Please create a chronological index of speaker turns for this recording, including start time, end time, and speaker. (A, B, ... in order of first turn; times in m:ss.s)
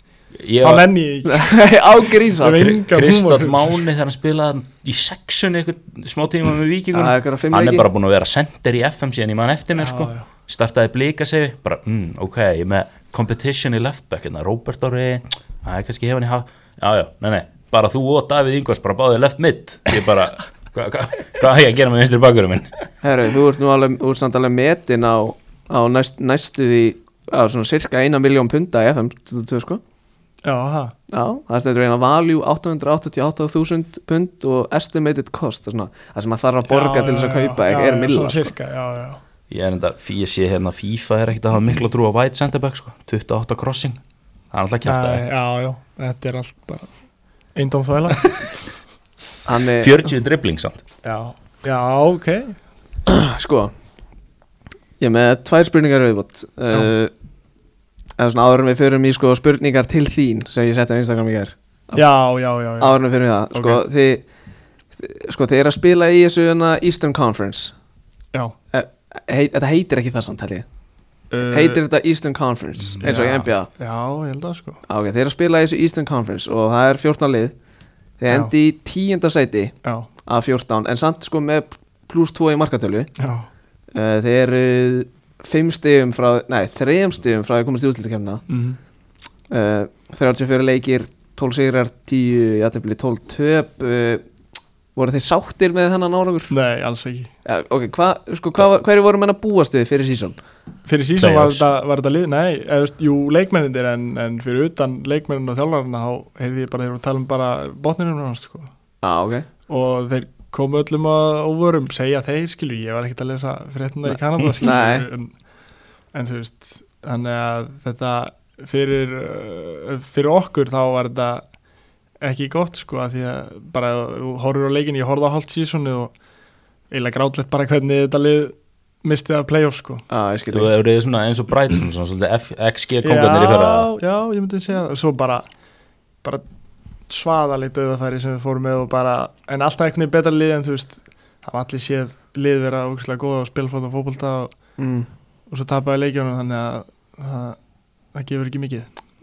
0:00.3-0:00.9 A
0:00.6-0:01.7 B
0:01.2-0:02.8 C
0:02.4-0:03.8 B
0:02.6-0:22.7 A
0:06.9-0:07.9 C
0:09.8-0:10.3 B
0:23.0-0:29.8 C
0:30.4-0:30.9 B
0:31.1-0:38.5 C
0:36.7-0:39.2 B
0:39.5-0:44.0 A
0:44.5-0:45.2 A
0:44.8-0:46.9 B
0:47.5-0:48.5 B
0:49.4-0:50.0 C
0:49.8-0:50.8 A
0:51.0-0:52.6 B
0:53.1-0:53.7 C
0:55.0-0:57.1 C
0:58.2-1:02.0 C
1:02.0-1:03.0 B
1:02.8-1:04.2 C
1:03.5-1:03.8 B
1:05.0-1:07.7 C
1:08.7-1:10.6 C
1:11.3-1:11.8 B
1:11.5-1:13.7 C
1:12.8-1:13.4 A
1:13.0-1:14.8 B
1:14.9-1:17.5 C
1:18.2-1:19.7 C
1:20.2-1:23.1 C
1:23.2-1:23.5 B
1:23.9-1:28.4 C
1:28.5-1:28.8 B
1:29.5-1:34.2 C
1:34.9-1:36.5 C
1:36.5-1:37.3 B
1:37.4-1:40.4 C
1:40.9-1:48.7 B
1:41.2-1:41.6 A
1:49.0-1:49.5 C
1:49.7-1:55.3 B
1:54.6-1:55.0 C
1:56.1-2:01.4 B
2:02.2-2:06.1 B
2:06.9-2:10.0 B
2:10.1-2:10.7 C
2:10.5-2:13.9 A
2:13.0-2:15.5 B
2:17.1-2:24.5 B
2:24.8-2:25.1 C
2:25.5-2:27.6 B
2:28.1-2:28.9 B